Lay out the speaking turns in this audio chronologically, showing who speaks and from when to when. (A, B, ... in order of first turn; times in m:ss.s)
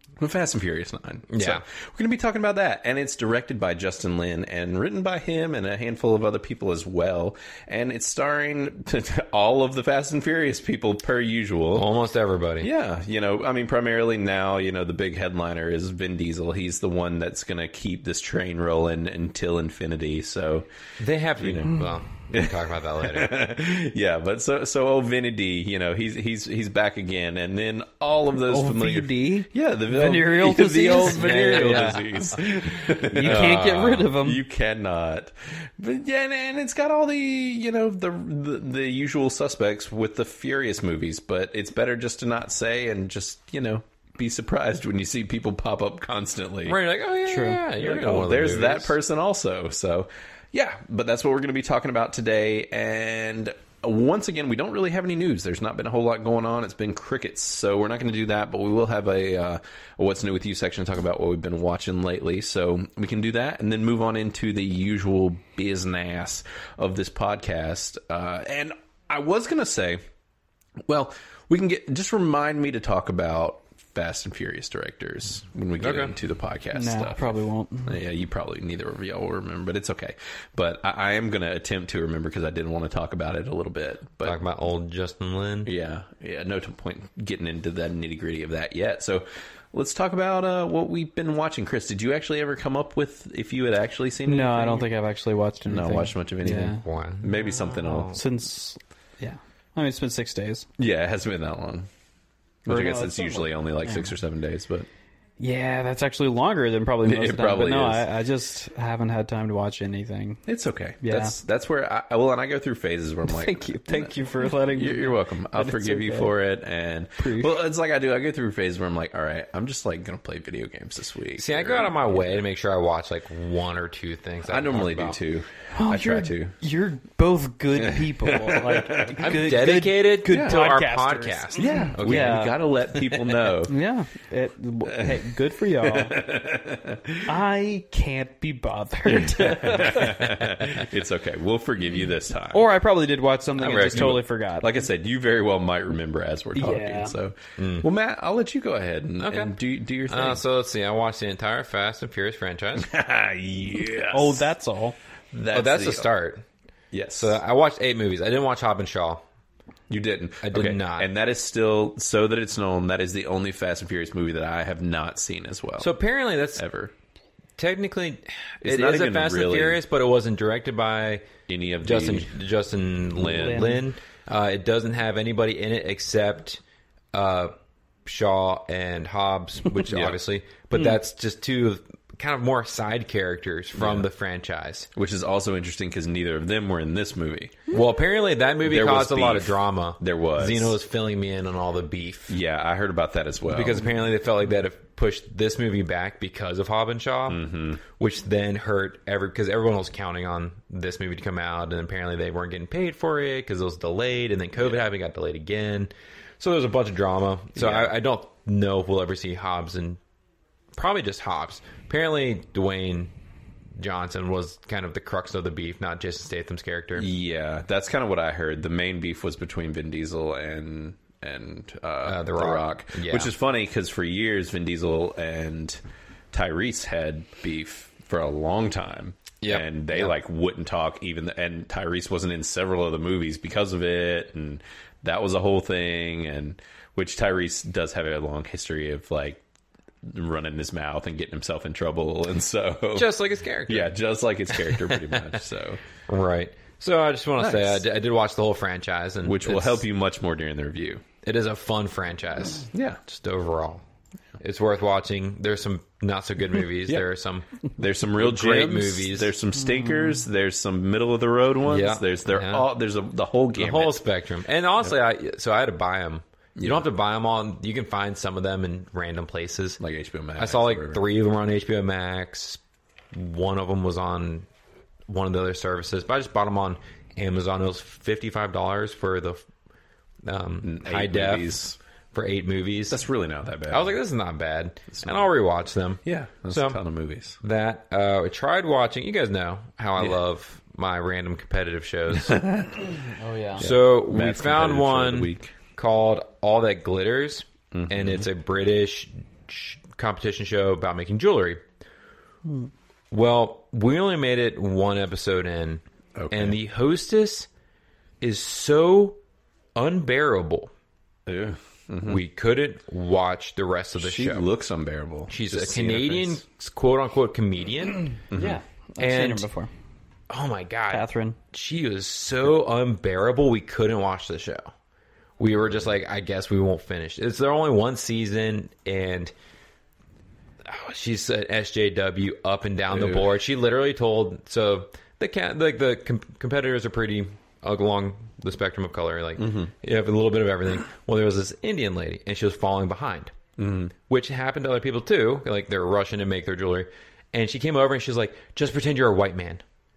0:00.2-0:11.9 A
0:01.3-0:01.6 B
0:11.8-0:12.7 B
0:12.6-0:20.7 A
0:21.0-0:23.3 B
0:21.4-0:46.8 A
0:28.4-0:32.0 C
0:31.0-0:32.2 B
0:32.8-0:34.4 C
0:33.2-0:34.1 B
0:46.7-0:49.0 B
0:47.3-0:47.6 C
0:47.8-1:10.0 A
1:10.9-1:24.4 A
1:15.8-1:16.1 B
1:16.7-1:18.0 C
1:24.2-1:25.7 B
1:25.6-1:34.9 A
1:34.3-1:36.8 C
1:35.7-1:38.2 A
1:36.7-1:38.2 B
1:37.6-1:40.7 C
1:40.8-1:41.9 A
1:42.7-1:44.9 A
1:42.7-1:44.1 C
1:45.4-1:50.4 C
1:47.0-1:48.0 A
1:50.5-2:01.9 A
1:51.0-1:51.4 C
1:53.3-1:56.4 C
1:57.2-1:57.6 C
2:01.4-2:05.2 B
2:04.5-2:06.6 A
2:05.7-2:16.2 C
2:07.8-2:09.2 A
2:09.2-2:12.5 B
2:10.3-2:10.6 A
2:11.6-2:13.7 A
2:15.8-2:17.3 A
2:17.2-2:20.2 C
2:19.2-2:22.6 A
2:22.5-2:24.8 C
2:23.6-2:24.2 B
2:23.7-2:30.4 A
2:26.6-2:27.2 C
2:27.6-2:27.9 B
2:29.2-2:29.6 B
2:30.1-2:32.9 B
2:32.8-2:34.5 A
2:34.0-2:35.0 C
2:35.3-2:36.1 A
2:35.5-2:36.4 B
2:36.9-2:37.4 A
2:37.2-2:39.2 B
2:39.9-2:45.9 A
2:40.4-2:41.1 B
2:45.8-2:46.6 B
2:46.6-2:46.9 A
2:47.6-2:51.3 B
2:48.6-2:49.8 A
2:51.5-2:52.3 A
2:51.8-2:56.6 B
2:53.1-2:53.8 A
2:53.3-2:53.8 C
2:57.1-2:57.5 B
2:58.0-3:04.9 B
2:59.9-3:00.2 A
3:03.8-3:04.1 A
3:05.0-3:07.7 A
3:07.7-3:12.4 B
3:08.6-3:10.8 A
3:12.3-3:13.8 A
3:13.5-3:30.0 B
3:17.3-3:17.8 A
3:27.6-3:27.9 A
3:30.8-3:33.1 B
3:33.8-3:37.1 B
3:37.0-3:45.8 A
3:42.0-3:43.3 B
3:46.3-3:59.4 A
3:49.4-3:50.1 B
4:00.0-4:03.1 A
4:03.0-4:04.0 B
4:03.7-4:05.8 A
4:04.5-4:05.3 B
4:06.1-4:09.8 B
4:07.4-4:07.8 A
4:09.2-4:11.0 A
4:11.2-4:13.8 B
4:12.7-4:13.0 A
4:14.4-4:17.5 B
4:17.8-4:24.0 A
4:18.1-4:19.4 B
4:19.7-4:20.1 C
4:21.7-4:22.7 B
4:23.6-4:29.8 B
4:26.6-4:26.8 A
4:29.8-4:31.0 A
4:30.4-4:32.6 B
4:33.1-4:34.5 B
4:35.1-4:39.4 B
4:40.2-4:41.6 B
4:40.6-4:41.8 A
4:42.1-4:43.0 B
4:42.9-4:44.0 A
4:43.7-4:46.8 B
4:46.0-4:47.4 A
4:47.4-4:52.4 B
4:52.2-4:52.8 A
4:53.1-4:53.6 C
4:53.6-4:55.6 A
4:53.6-5:01.6 B
4:57.7-4:58.3 A
5:03.1-5:07.5 B
5:06.2-5:06.6 A
5:08.2-5:09.2 B
5:09.8-5:10.7 B
5:11.3-5:12.2 A
5:12.0-5:14.4 B
5:14.0-5:16.4 A
5:15.3-5:18.1 B
5:18.3-5:18.6 A
5:18.3-5:19.7 C
5:19.0-5:19.5 B
5:20.3-5:24.7 B
5:20.9-5:21.4 C
5:25.4-5:29.3 B
5:30.6-5:43.3 B
5:32.9-5:33.3 A
5:39.4-5:39.7 A
5:43.6-5:43.9 A
5:44.1-5:49.6 B